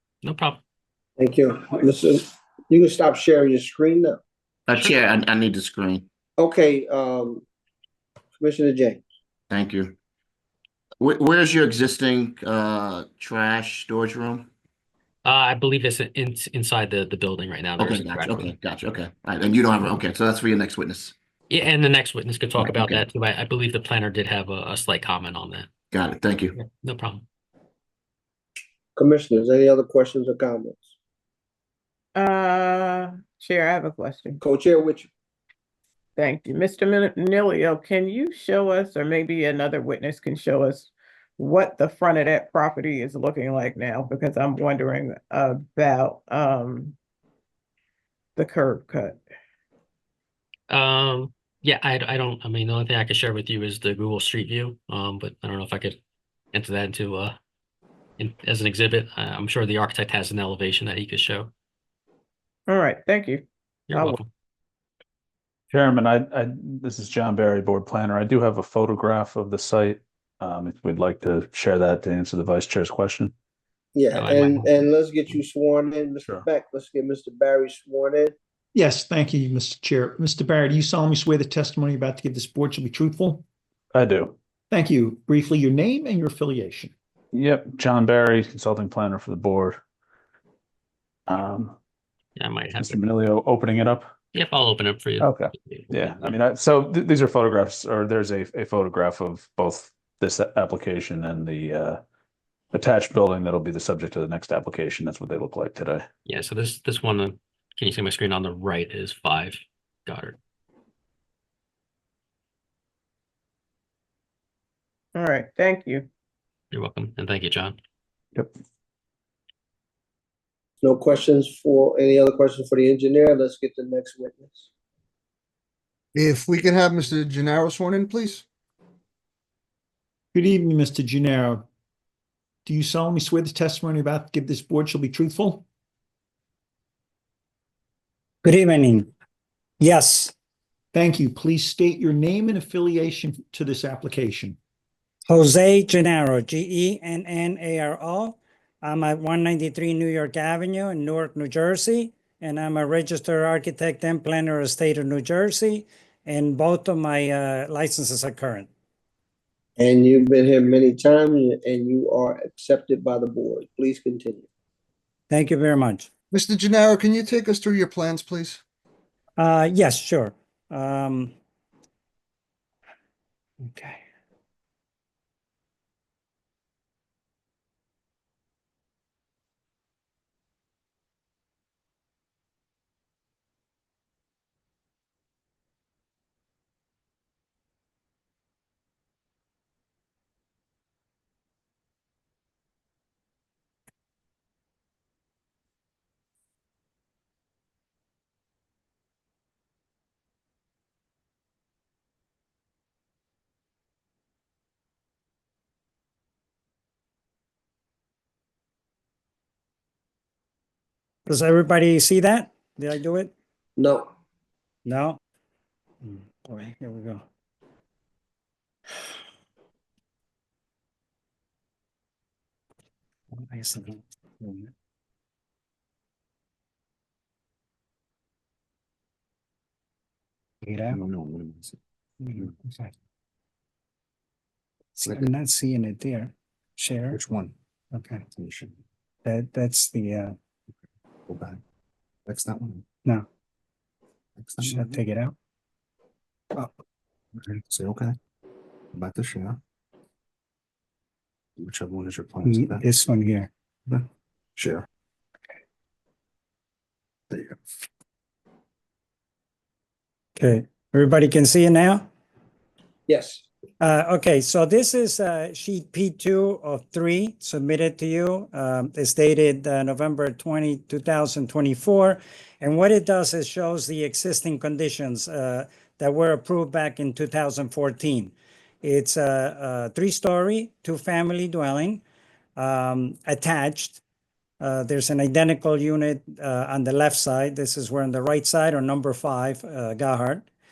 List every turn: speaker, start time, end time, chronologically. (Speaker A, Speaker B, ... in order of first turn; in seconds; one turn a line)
Speaker A: 0.2-0.6
Speaker B: 1.2-4.2
Speaker C: 4.7-6.1
Speaker B: 6.4-7.4
Speaker B: 8.4-9.0
Speaker C: 9.5-9.9
Speaker C: 11.0-14.5
Speaker A: 15.2-18.6
Speaker C: 17.8-21.1
Speaker A: 21.5-25.7
Speaker C: 22.6-23.0
Speaker C: 25.9-26.5
Speaker A: 26.6-27.2
Speaker B: 28.9-30.9
Speaker D: 32.1-34.4
Speaker B: 34.4-35.1
Speaker D: 36.2-47.0
Speaker D: 48.4-49.2
Speaker A: 50.7-56.0
Speaker A: 56.5-57.4
Speaker A: 58.2-61.5
Speaker D: 62.7-64.2
Speaker A: 63.9-64.2
Speaker E: 65.7-73.3
Speaker B: 73.9-78.3
Speaker A: 74.1-74.8
Speaker F: 78.7-83.4
Speaker E: 83.9-84.3
Speaker F: 84.7-86.9
Speaker E: 87.3-89.8
Speaker E: 91.3-91.8
Speaker A: 92.3-93.0
Speaker E: 92.7-94.1
Speaker A: 94.3-96.3
Speaker E: 95.2-102.0
Speaker E: 102.7-106.0
Speaker A: 106.2-110.4
Speaker D: 115.1-116.1
Speaker A: 116.7-117.8
Speaker B: 120.8-124.7
Speaker G: 126.1-128.4
Speaker F: 130.3-131.7
Speaker F: 132.7-135.6
Speaker H: 138.4-139.1
Speaker H: 139.8-140.3
Speaker F: 140.9-144.6
Speaker H: 145.3-158.7
Speaker B: 159.8-164.4
Speaker H: 165.3-166.1
Speaker G: 166.3-168.6
Speaker H: 169.4-171.3
Speaker H: 173.6-174.0
Speaker H: 211.2-213.3
Speaker B: 213.8-214.1
Speaker H: 214.8-215.2
Speaker H: 216.0-217.2
Speaker H: 223.4-224.7
Speaker H: 230.6-231.0
Speaker I: 230.9-231.7
Speaker H: 232.2-232.9
Speaker H: 235.0-237.2
Speaker I: 237.1-237.5
Speaker H: 237.9-238.2
Speaker I: 238.3-238.8
Speaker H: 239.2-240.3
Speaker I: 241.3-241.6
Speaker I: 242.2-242.8
Speaker I: 244.4-245.0
Speaker H: 244.6-245.3
Speaker I: 247.4-248.2
Speaker I: 248.9-249.6
Speaker I: 251.6-252.8
Speaker H: 252.4-253.5
Speaker I: 254.6-254.8
Speaker I: 257.3-257.6
Speaker H: 260.4-262.1
Speaker B: 263.1-263.4
Speaker H: 263.8-282.0
Speaker H: 282.6-284.0
Speaker H: 284.6-290.4